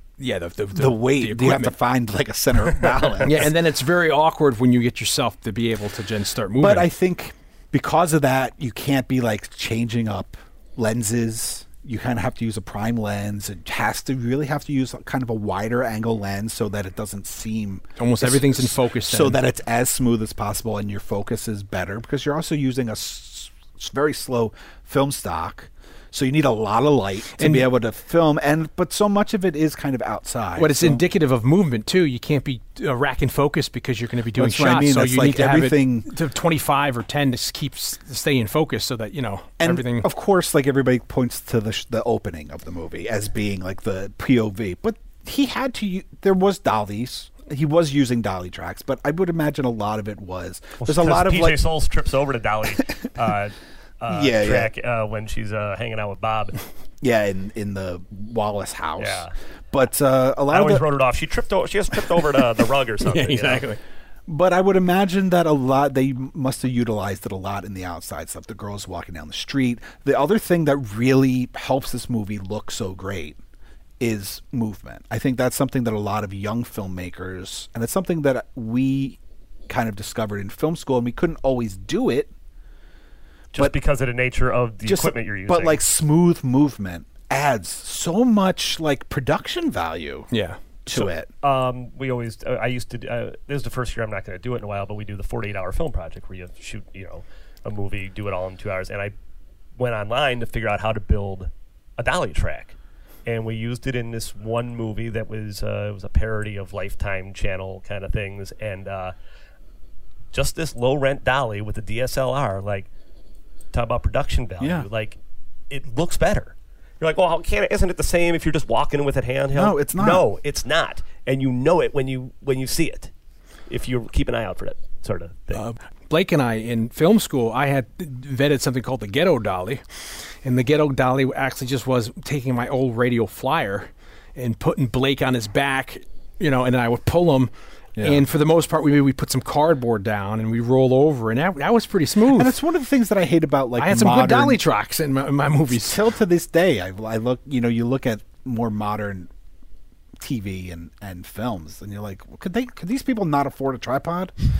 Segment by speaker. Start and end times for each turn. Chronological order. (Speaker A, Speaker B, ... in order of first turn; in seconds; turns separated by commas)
Speaker A: 0.2-1.8, Speaker B: 0.7-3.5, Speaker A: 3.2-6.9, Speaker B: 6.6-31.1, Speaker A: 18.0-19.4, Speaker A: 27.4-27.7, Speaker A: 30.6-40.1, Speaker B: 34.3-36.1, Speaker B: 39.6-51.6, Speaker C: 50.8-56.6, Speaker B: 54.1-54.7, Speaker B: 57.0-60.9, Speaker C: 59.0-59.3, Speaker C: 60.5-63.6, Speaker A: 63.0-63.8, Speaker B: 64.3-73.4, Speaker B: 74.0-82.3, Speaker C: 83.5-85.8, Speaker B: 84.8-90.3, Speaker A: 90.3-90.6, Speaker B: 90.8-91.3, Speaker C: 90.9-99.1, Speaker C: 99.8-109.1, Speaker C: 110.3-112.9, Speaker C: 113.7-115.2, Speaker B: 114.6-114.9, Speaker C: 115.7-123.1, Speaker B: 119.5-120.3, Speaker C: 123.7-125.6, Speaker A: 125.5-129.8, Speaker A: 130.4-142.6, Speaker B: 137.9-138.2, Speaker B: 142.3-144.6, Speaker A: 143.8-146.0, Speaker B: 145.7-149.3, Speaker B: 150.2-154.3